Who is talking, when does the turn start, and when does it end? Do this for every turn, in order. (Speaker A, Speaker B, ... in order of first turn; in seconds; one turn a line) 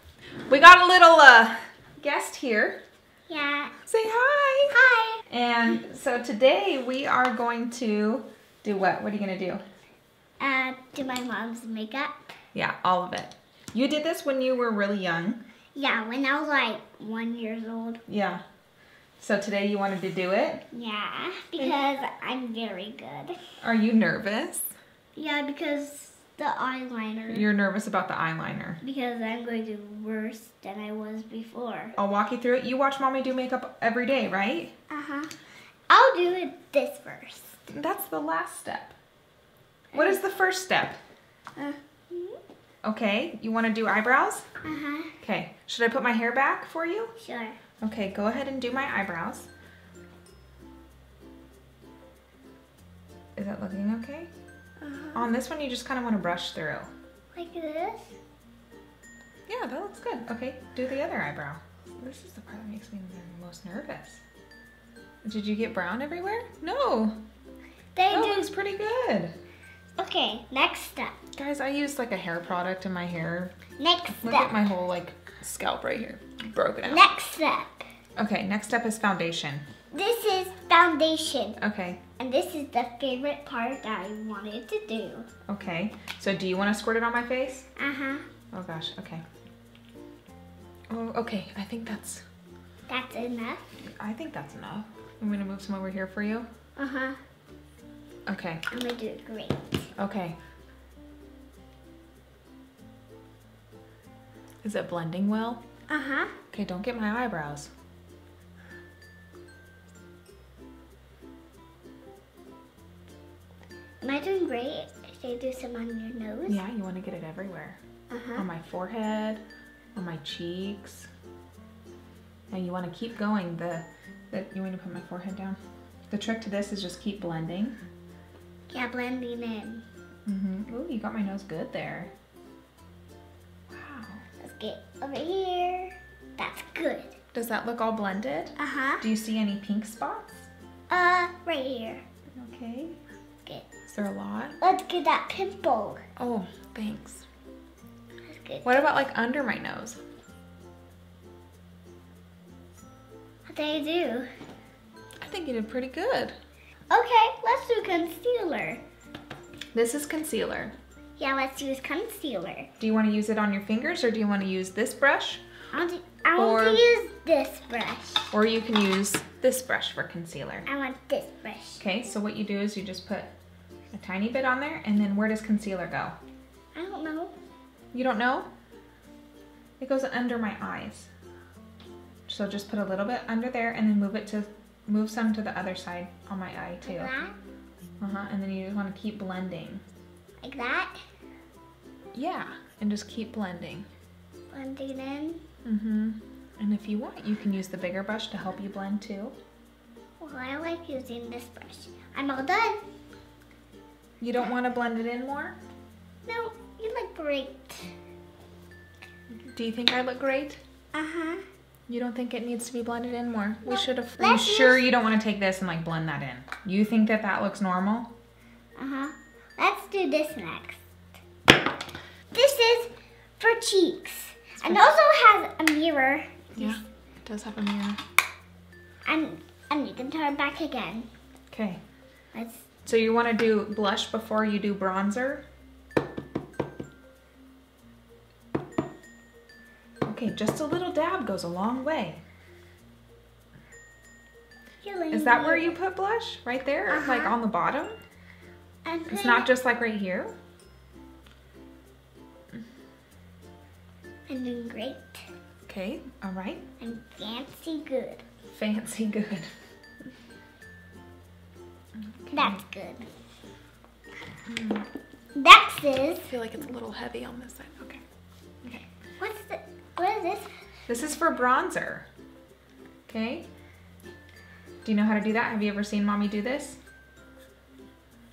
Speaker A: 0.5-2.8
Speaker B: 3.3-3.8
Speaker A: 3.9-4.8
Speaker B: 4.7-5.2
Speaker A: 5.3-9.6
Speaker B: 10.4-12.3
Speaker A: 12.5-15.4
Speaker B: 15.8-18.0
Speaker A: 18.1-18.4
Speaker A: 19.2-20.6
Speaker B: 20.7-23.4
Speaker A: 23.6-24.8
Speaker B: 25.2-27.5
Speaker A: 27.3-28.8
Speaker B: 28.8-31.9
Speaker A: 32.0-34.7
Speaker B: 34.9-35.3
Speaker B: 35.9-37.5
Speaker A: 37.7-39.0
Speaker B: 39.9-40.2
Speaker A: 39.9-41.0
Speaker B: 41.6-42.4
Speaker A: 42.8-44.5
Speaker B: 44.6-45.1
Speaker A: 45.2-47.1
Speaker B: 47.2-47.6
Speaker A: 47.8-49.5
Speaker A: 53.4-54.3
Speaker B: 54.8-55.3
Speaker A: 55.1-56.9
Speaker B: 57.3-58.2
Speaker A: 59.5-64.2
Speaker A: 65.2-67.2
Speaker B: 68.0-68.5
Speaker A: 68.1-69.3
Speaker B: 70.0-71.2
Speaker A: 71.3-73.5
Speaker B: 73.8-74.5
Speaker A: 74.1-77.0
Speaker B: 76.8-77.8
Speaker A: 78.2-79.6
Speaker B: 79.9-81.6
Speaker A: 81.6-82.0
Speaker B: 82.2-85.3
Speaker A: 85.5-87.7
Speaker B: 87.8-88.3
Speaker A: 88.5-89.2
Speaker A: 90.9-92.2
Speaker B: 92.9-93.8
Speaker A: 93.8-96.5
Speaker B: 96.8-97.2
Speaker A: 98.3-98.6
Speaker B: 98.7-99.9
Speaker A: 100.0-100.4
Speaker A: 104.6-105.6
Speaker B: 105.9-106.3
Speaker A: 106.5-107.7
Speaker B: 114.0-116.6
Speaker A: 116.5-117.8
Speaker B: 118.1-118.5
Speaker A: 118.4-119.4
Speaker A: 120.0-121.1
Speaker A: 122.5-125.6
Speaker A: 126.1-127.8
Speaker B: 128.7-129.8
Speaker A: 130.2-132.1
Speaker A: 133.7-134.2
Speaker B: 134.4-137.2
Speaker A: 137.3-140.5
Speaker B: 138.6-139.0
Speaker B: 140.9-142.0
Speaker A: 142.3-143.0
Speaker A: 143.9-144.6
Speaker B: 144.6-146.0
Speaker A: 146.2-147.2
Speaker B: 148.3-148.9
Speaker A: 148.7-150.0
Speaker B: 153.5-154.3
Speaker A: 155.2-156.4
Speaker B: 156.9-158.8
Speaker A: 159.7-160.8
Speaker B: 161.2-162.7
Speaker A: 162.8-165.4
Speaker B: 165.7-168.3
Speaker A: 166.4-166.8
Speaker A: 168.3-170.7
Speaker B: 170.7-171.8
Speaker A: 171.8-173.3
Speaker A: 173.9-176.2
Speaker B: 176.8-177.3
Speaker A: 177.9-178.5
Speaker A: 179.8-181.1
Speaker A: 182.3-187.1
Speaker B: 186.8-187.4
Speaker A: 188.0-189.8
Speaker B: 190.4-191.0
Speaker A: 192.1-193.9
Speaker B: 194.5-195.4
Speaker A: 195.7-199.3
Speaker B: 200.2-202.8
Speaker A: 204.2-205.6
Speaker B: 206.2-207.9
Speaker A: 209.4-210.6
Speaker B: 210.9-211.4
Speaker A: 211.9-218.1
Speaker B: 213.7-214.9
Speaker B: 218.8-220.8
Speaker B: 222.3-226.8
Speaker A: 224.6-224.9
Speaker A: 226.6-228.0
Speaker B: 229.1-231.1
Speaker A: 231.5-231.8
Speaker B: 232.3-232.7
Speaker A: 232.8-235.5
Speaker A: 240.1-242.2
Speaker B: 244.8-245.8
Speaker A: 245.1-247.9
Speaker B: 246.9-247.4
Speaker B: 248.8-249.5
Speaker A: 249.1-250.3
Speaker B: 254.3-255.2
Speaker A: 255.7-256.6
Speaker B: 256.8-258.2
Speaker A: 258.5-259.5
Speaker A: 262.0-262.6
Speaker B: 262.3-263.1
Speaker A: 264.5-264.9
Speaker B: 265.4-266.3
Speaker A: 266.2-268.0
Speaker B: 269.2-270.5
Speaker A: 270.9-272.1
Speaker A: 273.1-273.5
Speaker A: 274.8-276.8